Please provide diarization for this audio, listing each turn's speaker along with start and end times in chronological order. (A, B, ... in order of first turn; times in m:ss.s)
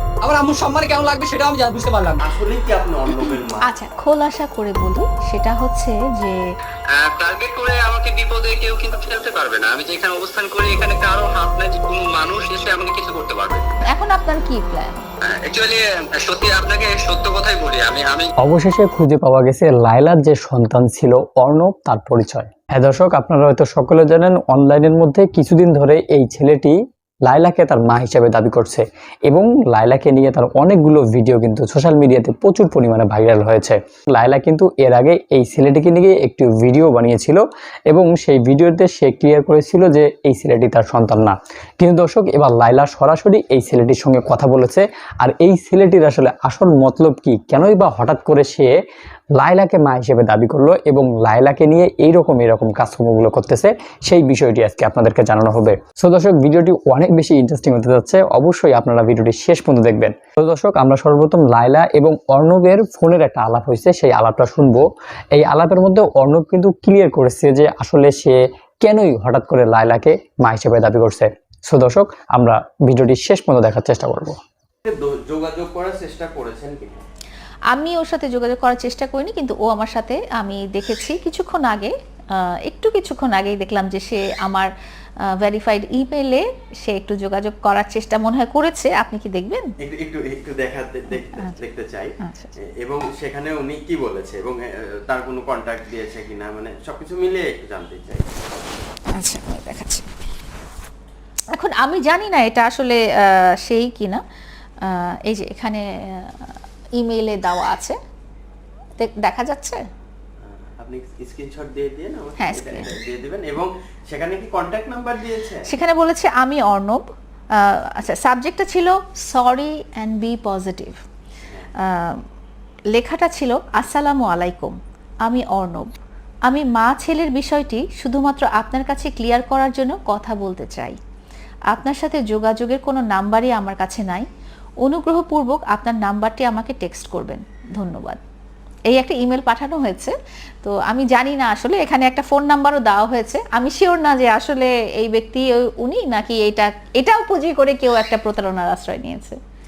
0:00.2-0:02.2 A
0:02.2-0:03.7 B
0:03.7-0:06.4 C
0:07.0-0:13.7 D
0:13.9-0:15.0 C
0:15.2-0:18.3 D
0:18.4-0:48.7 E
0:49.4-1:14.4 E
1:14.8-1:17.0 B
1:17.7-1:21.9 C
1:22.6-1:24.7 C
1:25.4-1:29.7 C
1:29.8-1:32.2 B
1:32.2-1:32.5 C
1:32.8-1:38.3 B
1:39.2-1:40.0 C
1:41.5-1:44.2 C
1:44.8-1:48.0 C
1:49.0-1:49.8 C
1:50.4-1:55.6 B
1:52.4-1:52.8 C
1:55.7-1:57.0 C
1:57.7-2:01.0 C
2:02.9-2:05.9 C
2:06.5-2:11.0 C
2:11.7-2:14.2 C
2:14.8-2:18.2 C
2:18.9-2:29.4 C